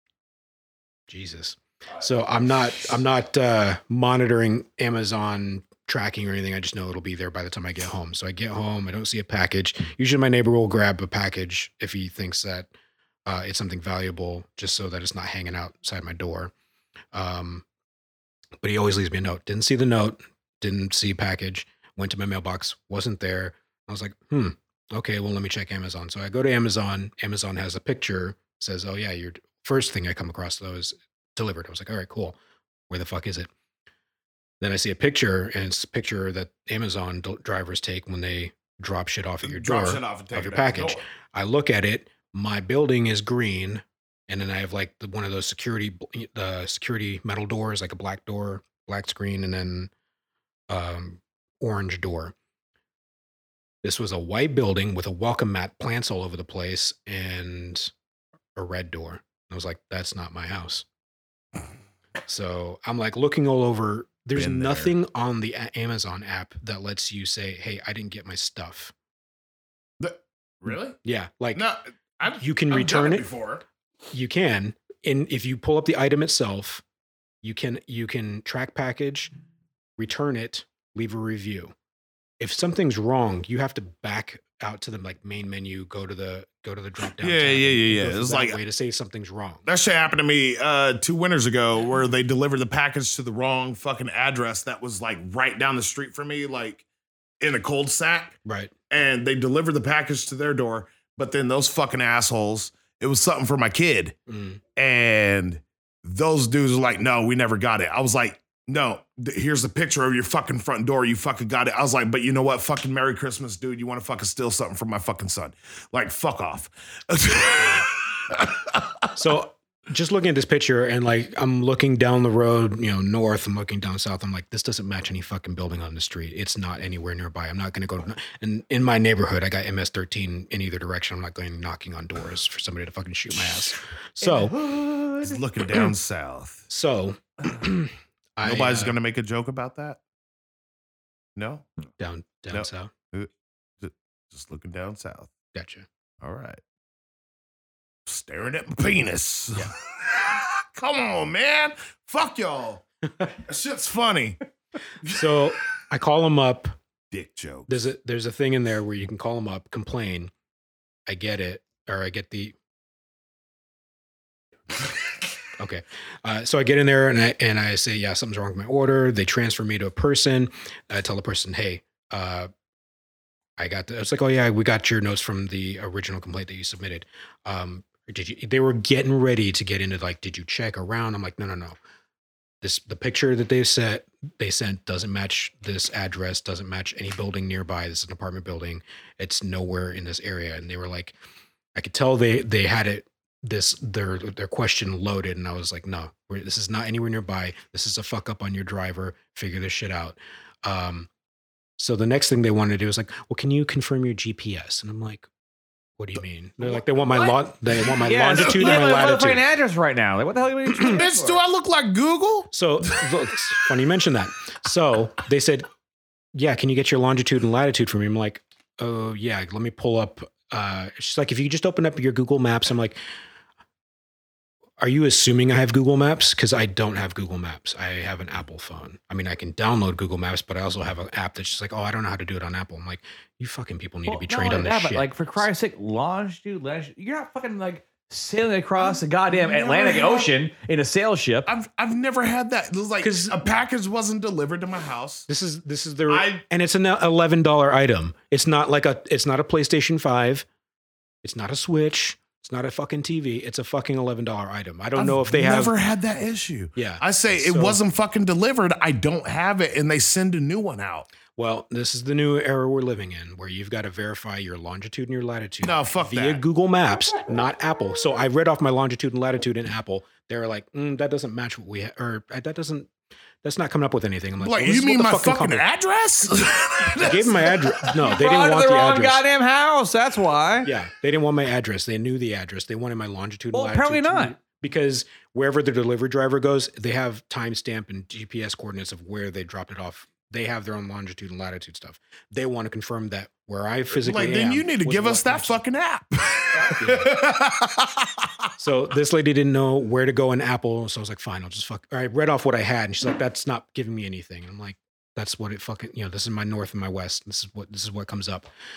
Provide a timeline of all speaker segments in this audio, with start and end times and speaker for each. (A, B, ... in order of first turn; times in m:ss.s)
0:01.1-0:12.7 A
0:13.2-0:16.5 A
0:17.1-0:17.6 A
0:18.6-0:32.4 A
0:32.9-0:33.5 A
0:34.6-0:49.9 A
0:39.4-0:41.0 B
0:50.7-0:52.3 A
0:53.8-0:57.9 A
0:58.6-1:00.8 A
1:02.2-1:08.9 A
1:04.3-1:04.9 B
1:10.0-1:11.0 B
1:11.0-1:11.6 A
1:11.5-1:13.6 B
1:12.4-1:13.3 A
1:14.1-1:16.8 A
1:17.4-1:19.3 A
1:20.0-1:21.7 A
1:22.4-1:29.6 A
1:27.2-1:28.6 B
1:29.6-1:36.8 B
1:37.4-1:38.4 B
1:38.4-1:38.7 A
1:38.9-1:44.1 B
1:44.3-1:44.6 A
1:44.8-1:59.0 B
1:59.2-2:14.6 A
2:14.2-2:15.3 C
2:15.2-2:16.6 B
2:16.7-2:18.9 A
2:18.4-2:20.0 B
2:21.4-2:21.6 B
2:22.0-2:22.9 A
2:22.5-2:23.3 B
2:23.8-2:25.3 B
2:25.5-2:25.8 A
2:26.2-2:26.6 B
2:28.0-2:34.4 B
2:35.1-2:36.7 A
2:37.1-2:37.9 B
2:37.7-2:40.3 A
2:41.1-2:42.5 A
2:45.6-2:52.5 A
2:53.6-3:01.8 A
3:02.6-3:11.2 A
3:11.7-3:21.1 A
3:21.8-3:25.3 A
3:26.0-3:29.4 A
3:28.0-3:31.4 C
3:28.3-3:28.6 B
3:30.8-3:33.1 B
3:32.5-3:35.6 A
3:36.3-3:43.0 A
3:44.8-3:55.4 A
3:54.0-4:01.5 C
3:58.8-4:00.3 B
4:01.4-4:05.3 B
4:03.0-4:03.4 A
4:05.3-4:10.4 A
4:06.1-4:06.4 B
4:11.2-4:15.7 A
4:15.0-4:21.1 B
4:16.8-4:17.8 A
4:21.4-4:32.9 A
4:25.6-4:26.4 B
4:33.4-4:35.6 A
4:34.4-4:37.3 B
4:36.8-4:39.2 A
4:37.8-4:40.7 C
4:40.6-4:55.6 A
4:43.5-4:44.3 C
4:53.9-4:58.3 B
4:56.7-4:57.1 A
4:58.6-5:08.5 A